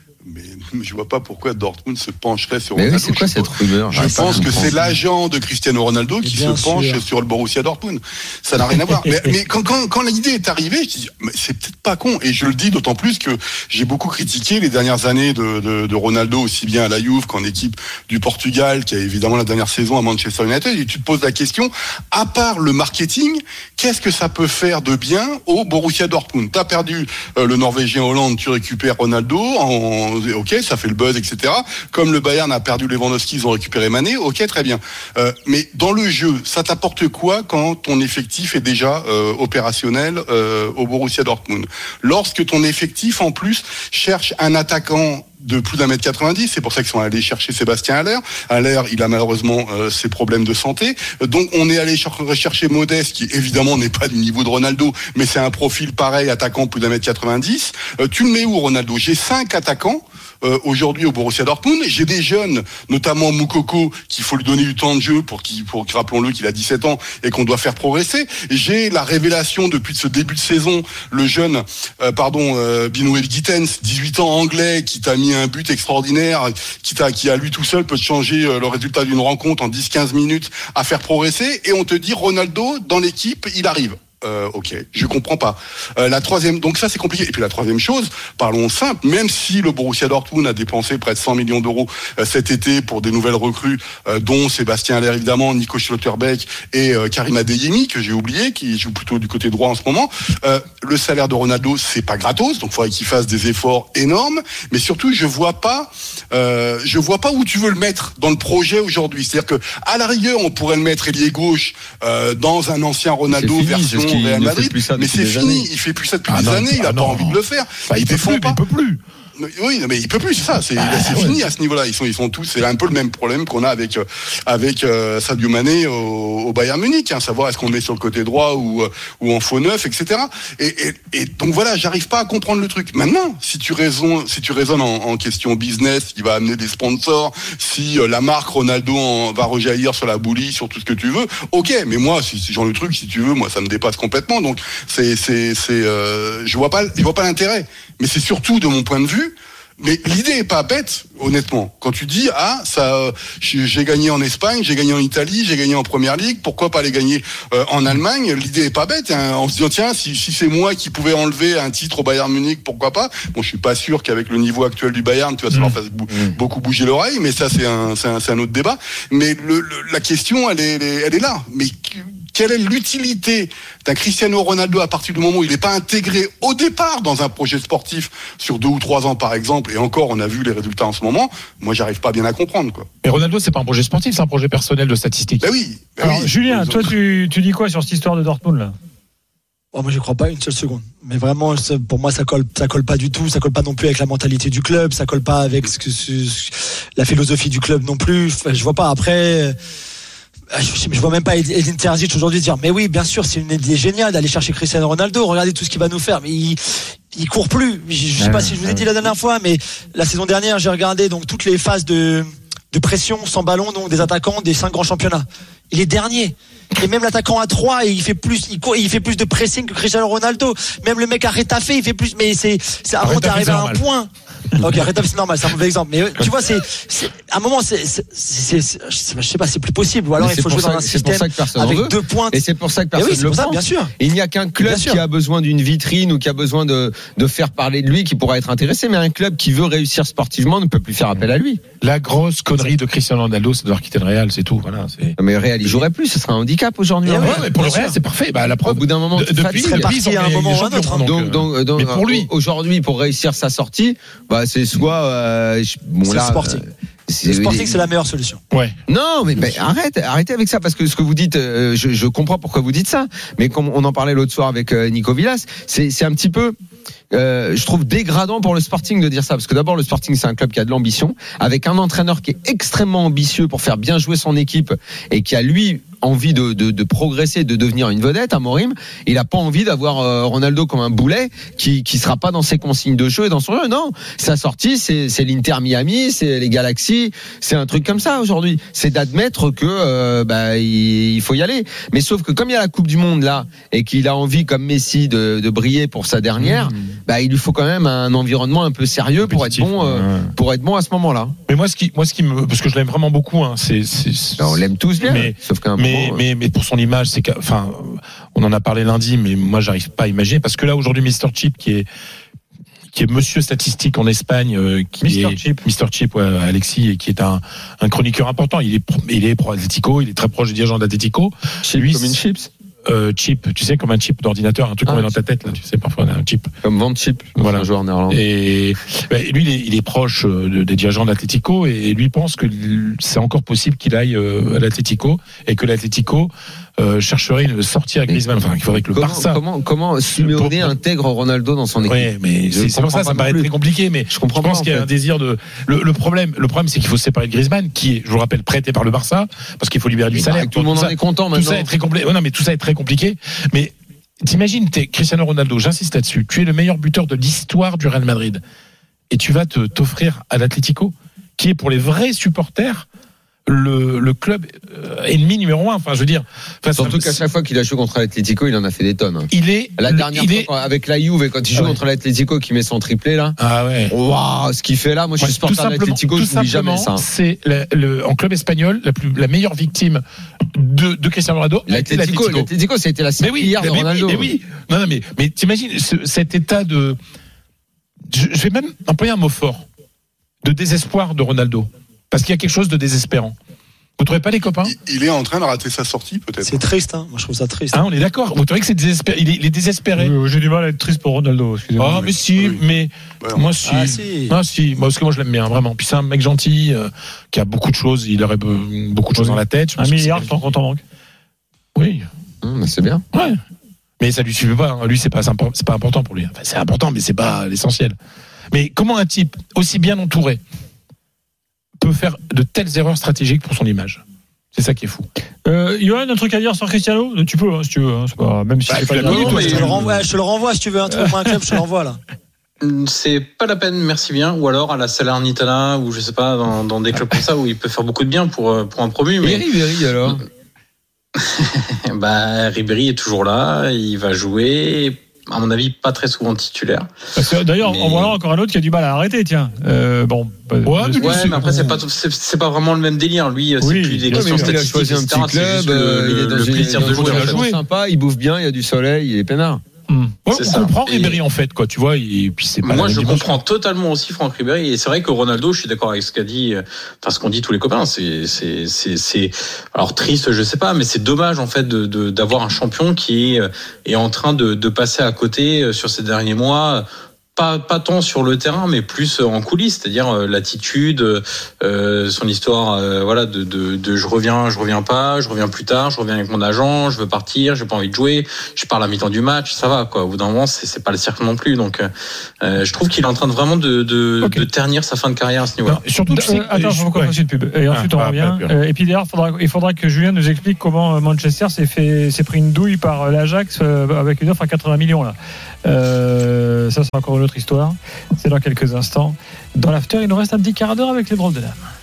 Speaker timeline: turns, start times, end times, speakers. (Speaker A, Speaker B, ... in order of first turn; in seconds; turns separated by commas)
Speaker A: 0.2-118.6, Speaker B: 2.8-4.7, Speaker C: 4.0-4.9, Speaker C: 6.2-7.0, Speaker B: 113.3-115.7, Speaker D: 116.2-119.0, Speaker A: 119.4-182.8, Speaker D: 120.8-121.4, Speaker D: 183.0-185.5, Speaker A: 185.4-187.0, Speaker E: 186.0-188.7, Speaker C: 189.7-199.6, Speaker C: 200.5-233.9, Speaker D: 208.2-208.8, Speaker D: 223.0-223.8, Speaker B: 230.2-241.6, Speaker C: 234.6-235.0, Speaker D: 241.8-245.9, Speaker B: 245.2-247.5, Speaker C: 247.0-248.0, Speaker D: 247.2-252.3, Speaker B: 248.6-249.9, Speaker C: 249.6-251.1, Speaker B: 251.0-257.9, Speaker C: 256.0-256.6, Speaker C: 257.2-258.4, Speaker D: 258.5-258.8, Speaker B: 258.9-266.6, Speaker B: 267.1-301.4, Speaker D: 296.4-296.9, Speaker D: 299.2-300.3, Speaker D: 301.5-311.9, Speaker B: 304.4-306.2, Speaker D: 312.9-322.2, Speaker E: 315.0-315.6, Speaker B: 321.6-322.5, Speaker D: 322.8-326.5, Speaker B: 324.9-325.5, Speaker B: 326.6-328.2, Speaker D: 327.3-339.4, Speaker B: 338.9-343.5, Speaker D: 340.1-340.7, Speaker D: 341.8-358.4, Speaker B: 344.1-344.9, Speaker B: 350.1-351.7, Speaker D: 359.1-362.9, Speaker D: 363.5-367.2, Speaker B: 366.8-373.3, Speaker D: 369.3-370.5, Speaker D: 371.5-371.8, Speaker D: 373.4-373.9, Speaker B: 373.9-377.0, Speaker D: 375.2-380.0, Speaker D: 380.5-382.5, Speaker B: 381.7-384.3, Speaker D: 383.2-387.0, Speaker D: 388.1-389.6, Speaker D: 390.4-393.4, Speaker D: 394.0-394.7, Speaker A: 394.5-396.6, Speaker C: 396.4-397.9, Speaker D: 397.7-400.1, Speaker E: 400.0-402.2, Speaker D: 401.8-410.5, Speaker A: 401.9-402.6, Speaker A: 403.2-403.5, Speaker C: 403.6-404.4, Speaker E: 409.1-410.8, Speaker D: 411.7-412.1, Speaker B: 412.4-413.0, Speaker D: 413.1-413.4, Speaker D: 414.0-417.9, Speaker D: 418.5-420.4, Speaker D: 421.8-424.0, Speaker D: 424.5-425.1, Speaker E: 425.4-430.0, Speaker D: 428.7-429.9, Speaker C: 429.0-432.0, Speaker F: 429.0-429.8, Speaker F: 432.6-439.5, Speaker B: 439.2-440.2, Speaker F: 441.9-446.9, Speaker E: 447.1-451.8, Speaker F: 447.6-448.1, Speaker D: 450.6-451.4, Speaker F: 451.0-457.5, Speaker E: 453.6-454.6, Speaker B: 454.1-459.6, Speaker D: 456.5-457.6, Speaker E: 459.9-460.2, Speaker D: 460.3-463.4, Speaker F: 460.3-461.2, Speaker F: 462.6-476.8, Speaker F: 477.4-491.9, Speaker F: 492.4-495.8, Speaker D: 494.2-494.5, Speaker D: 495.6-497.1, Speaker E: 496.1-511.6, Speaker D: 497.7-498.5